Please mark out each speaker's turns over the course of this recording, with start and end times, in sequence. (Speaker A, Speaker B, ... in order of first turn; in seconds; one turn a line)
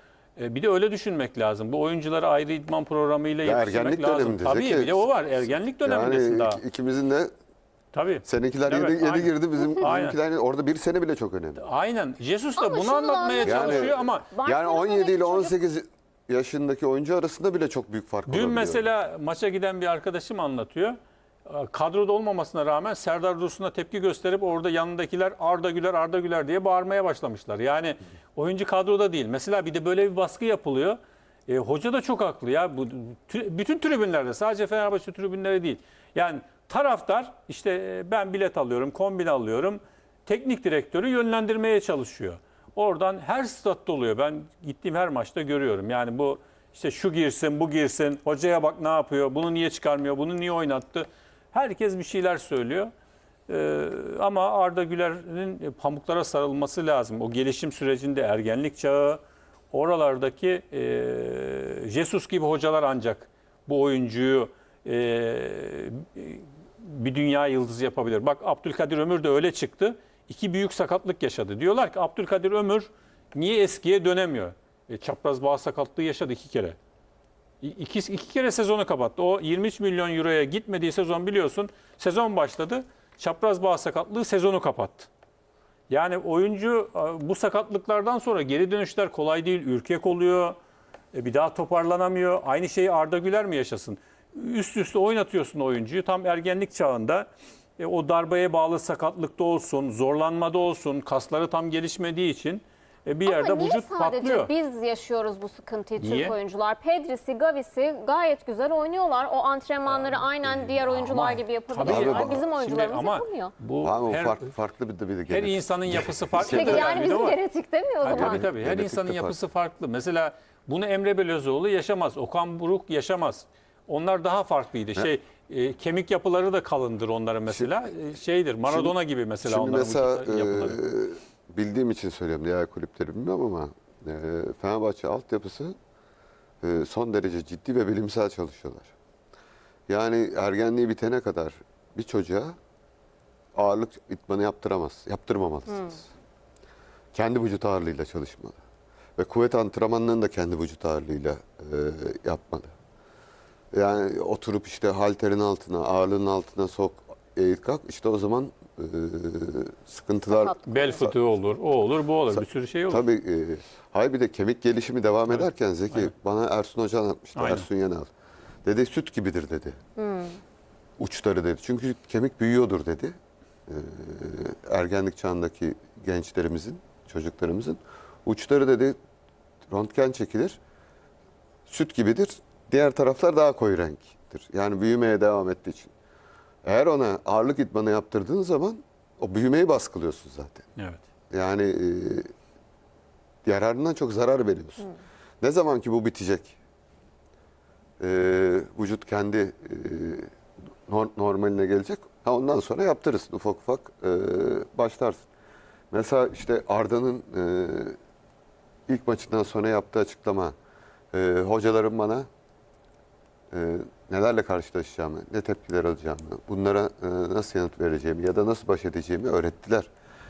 Speaker A: 0.4-6.6
Speaker B: 3.4-5.1
Speaker B: 5.8-7.3
Speaker A: 7.9-10.2
Speaker B: 8.2-11.6
Speaker A: 11.6-14.3
Speaker C: 12.6-15.6
Speaker B: 13.4-18.9
Speaker A: 18.3-52.9
Speaker A: 53.5-76.8
Speaker A: 77.6-85.1
Speaker A: 85.9-90.6
Speaker A: 91.1-97.3
Speaker A: 97.8-104.5
Speaker C: 103.3-113.5
Speaker A: 106.0-106.4
Speaker A: 109.9-114.5
Speaker B: 111.8-112.5
Speaker B: 113.8-117.0
Speaker A: 115.3-117.4
Speaker C: 116.4-118.5
Speaker A: 118.0-130.8
Speaker B: 118.1-119.4
Speaker B: 127.5-127.8
Speaker B: 128.7-135.8
Speaker B: 136.6-138.9
Speaker B: 139.9-142.6
Speaker B: 143.6-146.1
Speaker B: 147.1-148.6
Speaker B: 149.2-152.7
Speaker B: 153.7-161.2
Speaker C: 160.3-161.1
Speaker A: 160.7-163.0
Speaker B: 162.3-168.1
Speaker A: 165.3-166.1
Speaker A: 167.3-167.7
Speaker B: 168.7-169.8
Speaker C: 170.0-170.4
Speaker B: 171.0-173.2
Speaker B: 173.7-179.0
Speaker B: 179.7-180.6
Speaker B: 181.7-185.9
Speaker B: 186.7-190.7
Speaker A: 190.8-191.0
Speaker B: 191.3-192.3
Speaker B: 193.4-196.6
Speaker B: 198.0-200.3
Speaker B: 200.9-205.2
Speaker B: 205.9-208.0
Speaker B: 208.9-210.6
Speaker B: 211.1-212.3
Speaker B: 213.5-219.9